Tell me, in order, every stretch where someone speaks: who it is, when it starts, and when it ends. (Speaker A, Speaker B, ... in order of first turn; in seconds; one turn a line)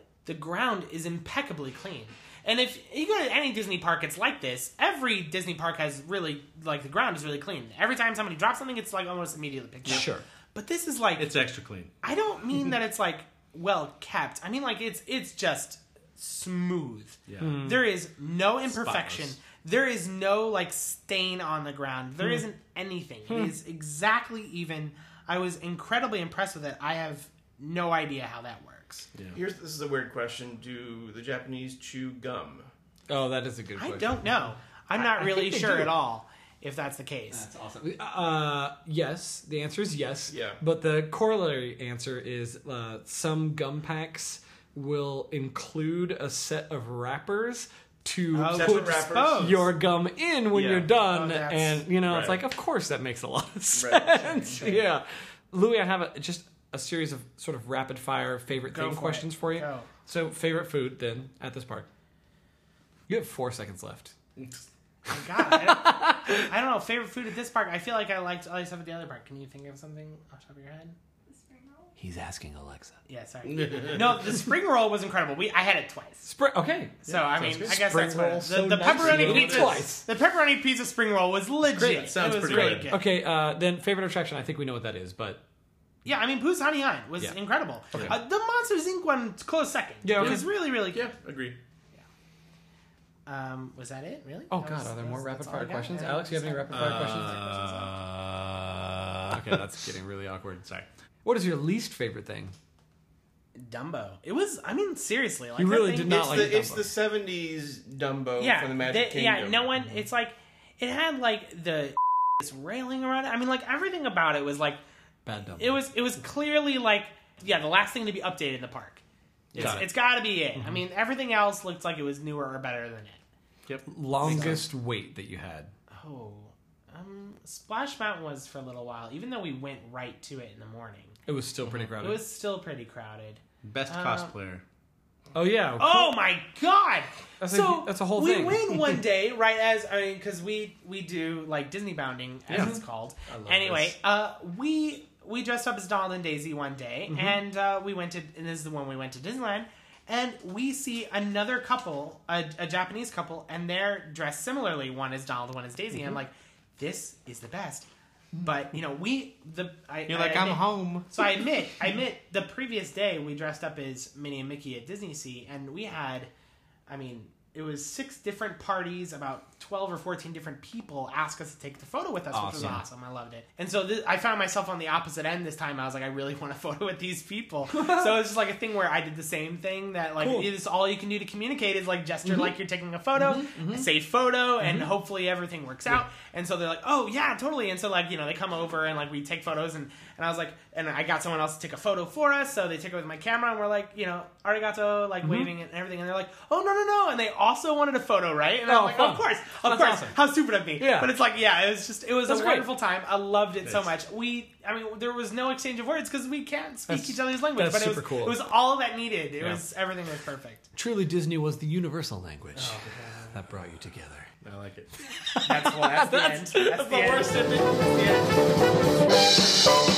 Speaker A: 0.2-11.3
Speaker B: 9.8-10.2
Speaker C: 11.2-11.9
Speaker A: 12.0-29.1
Speaker C: 17.3-17.5
Speaker B: 17.4-17.8
Speaker C: 18.7-19.3
Speaker B: 23.3-23.5
Speaker D: 29.3-32.7
Speaker B: 33.1-36.0
Speaker A: 33.8-37.5
Speaker B: 37.3-61.9
Speaker D: 40.3-40.6
Speaker A: 48.3-49.7
Speaker D: 48.5-49.5
Speaker D: 50.5-50.9
Speaker A: 51.0-51.9
Speaker C: 52.1-52.4
Speaker D: 53.7-54.6
Speaker A: 54.4-54.8
Speaker A: 58.7-59.9
Speaker B: 63.1-64.1
Speaker C: 64.4-64.6
Speaker A: 65.1-70.9
Speaker B: 65.1-66.5
Speaker B: 72.0-73.0
Speaker A: 73.1-76.3
Speaker C: 73.5-74.2
Speaker B: 76.2-80.0
Speaker A: 77.0-83.0
Speaker C: 77.1-77.8
Speaker C: 78.8-79.8
Speaker C: 81.8-82.9
Speaker B: 81.8-85.4
Speaker A: 86.0-91.0
Speaker B: 90.0-90.4
Speaker C: 90.2-91.6
Speaker A: 93.3-97.9
Speaker B: 94.5-97.6
Speaker C: 96.7-98.8
Speaker B: 99.3-100.6
Speaker C: 99.3-99.6
Speaker C: 100.3-100.9
Speaker B: 101.2-102.5
Speaker A: 103.6-106.5
Speaker B: 105.6-106.9
Speaker D: 106.0-109.7
Speaker A: 108.4-114.8
Speaker B: 115.2-115.8
Speaker A: 115.6-119.0
Speaker B: 119.5-119.8
Speaker C: 119.5-119.9
Speaker A: 119.5-123.2
Speaker C: 123.7-124.6
Speaker B: 123.9-125.7
Speaker A: 124.2-124.7
Speaker A: 125.9-131.2
Speaker B: 131.3-132.2
Speaker A: 132.0-134.3
Speaker C: 133.6-134.6
Speaker B: 135.3-136.2
Speaker A: 135.8-157.9
Speaker B: 137.4-139.0
Speaker C: 142.5-142.8
Speaker B: 142.5-142.8
Speaker B: 143.3-143.9
Speaker B: 147.1-147.4
Speaker A: 158.4-166.3
Speaker C: 160.1-161.1
Speaker A: 166.9-210.7
Speaker B: 172.3-172.8
Speaker B: 177.7-178.2
Speaker B: 180.2-180.5
Speaker B: 182.2-182.5
Speaker B: 183.1-183.9
Speaker B: 184.6-184.9
Speaker B: 195.2-195.5
Speaker B: 198.7-200.2
Speaker B: 200.8-201.1
Speaker B: 202.3-202.7
Speaker C: 203.6-203.9
Speaker B: 206.9-208.4
Speaker B: 210.7-212.8
Speaker A: 212.5-213.1
Speaker B: 213.3-214.3
Speaker C: 214.4-214.9
Speaker B: 215.1-218.3
Speaker A: 215.4-217.4